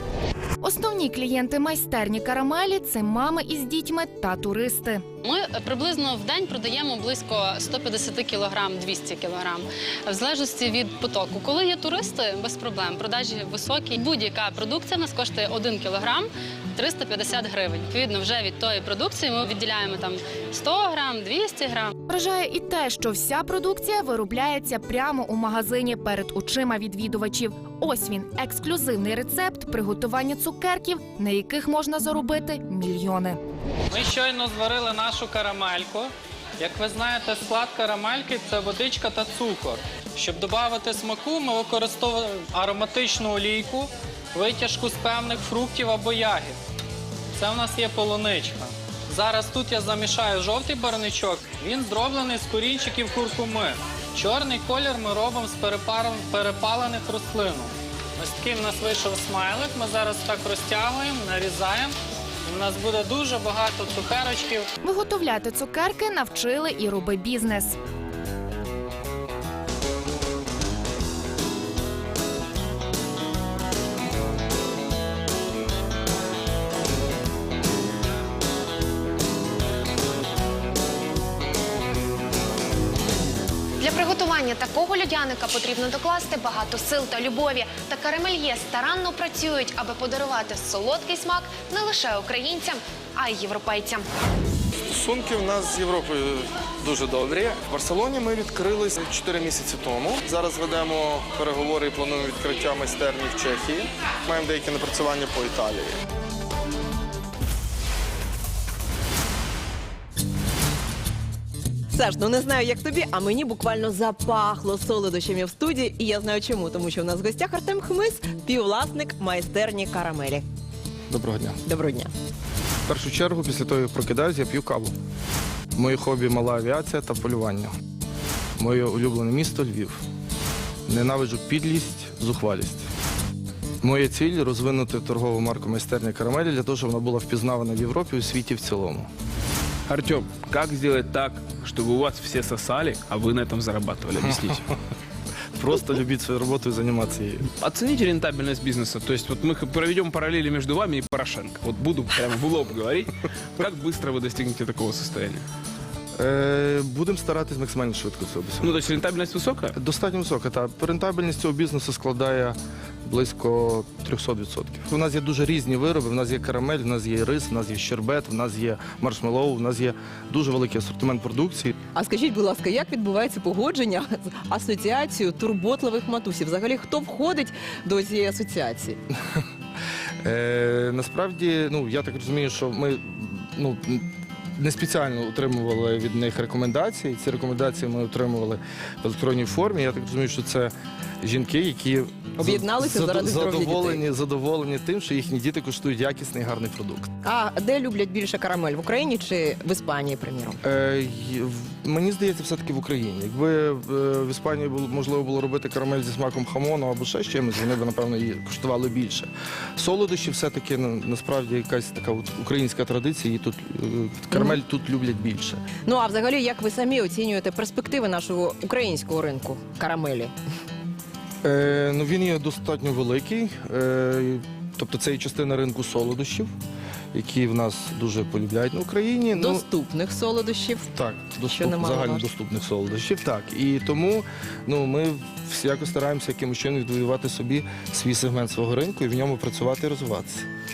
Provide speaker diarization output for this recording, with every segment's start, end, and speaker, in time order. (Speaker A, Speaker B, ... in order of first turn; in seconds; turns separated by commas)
Speaker A: 0.6-5.0, Speaker B: 5.2-21.9, Speaker A: 22.1-33.4, Speaker C: 33.9-46.6, Speaker C: 47.4-62.0, Speaker C: 62.5-64.7, Speaker A: 64.8-67.8, Speaker D: 83.8-94.1, Speaker E: 94.9-106.0, Speaker F: 111.9-120.5, Speaker E: 121.1-121.6, Speaker F: 121.7-122.1, Speaker E: 122.9-124.9, Speaker E: 125.8-127.7, Speaker E: 128.6-130.0, Speaker E: 130.9-132.9, Speaker E: 133.8-139.1, Speaker G: 139.9-144.7, Speaker E: 145.6-147.4, Speaker G: 147.6-155.4, Speaker E: 156.2-158.8, Speaker G: 158.6-159.8, Speaker E: 159.7-171.8, Speaker F: 171.9-179.0, Speaker E: 180.2-184.1, Speaker E: 184.6-197.1, Speaker F: 192.4-194.0, Speaker F: 197.2-200.6, Speaker E: 200.6-215.6, Speaker F: 215.8-220.3, Speaker E: 221.4-226.5, Speaker E: 227.1-229.6, Speaker F: 229.3-230.9, Speaker E: 230.9-240.5, Speaker F: 231.4-232.2